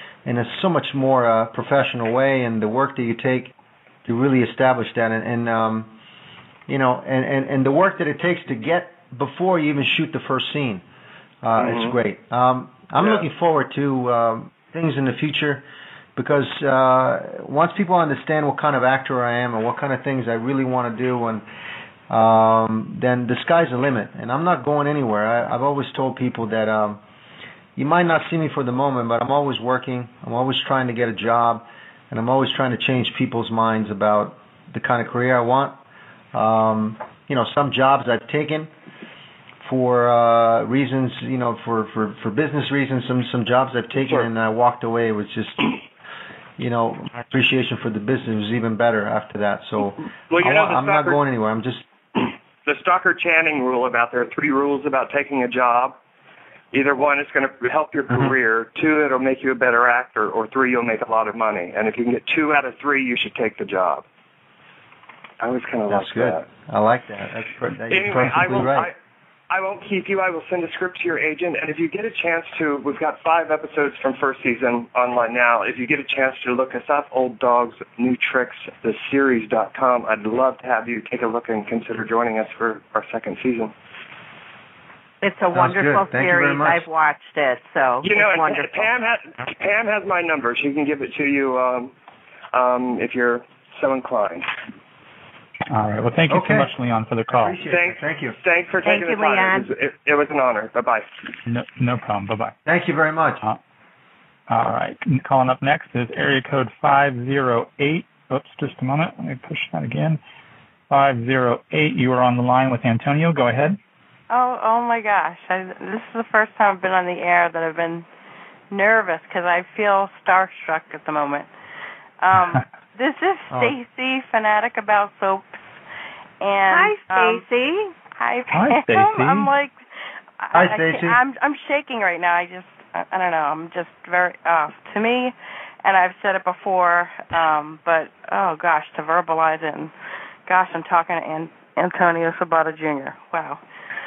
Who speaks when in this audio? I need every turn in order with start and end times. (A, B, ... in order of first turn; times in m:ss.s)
0:00.2-0:03.5 A
0:04.0-0:05.9 A
0:06.7-0:10.8 A
0:11.4-0:15.6 A
0:11.6-0:11.9 B
0:13.0-0:13.2 B
0:16.2-0:21.4 A
0:22.1-0:27.0 A
0:27.8-0:35.8 A
0:36.3-0:38.7 A
0:39.6-0:45.8 A
0:46.6-0:51.9 A
0:50.0-0:51.2 B
0:52.2-0:56.0 B
0:56.7-1:04.0 B
1:05.4-1:06.5 B
1:05.9-1:08.9 A
1:07.9-1:09.0 B
1:09.5-1:23.7 B
1:25.2-1:28.9 C
1:25.5-1:26.9 A
1:28.0-1:31.9 B
1:32.5-1:34.5 B
1:35.7-1:37.6 D
1:36.3-1:36.7 A
1:37.4-1:38.4 A
1:37.7-1:41.1 B
1:38.8-1:39.7 C
1:41.5-1:42.6 D
1:42.7-1:43.4 A
1:44.5-1:50.2 D
1:50.9-1:53.8 D
1:54.3-1:58.1 E
1:58.7-2:01.5 E
2:02.2-2:05.6 E
2:06.4-2:07.4 E
2:06.7-2:07.9 C
2:08.0-2:09.8 E
2:08.5-2:09.5 D
2:10.4-2:19.9 E
2:10.5-2:11.2 A
2:20.5-2:23.6 E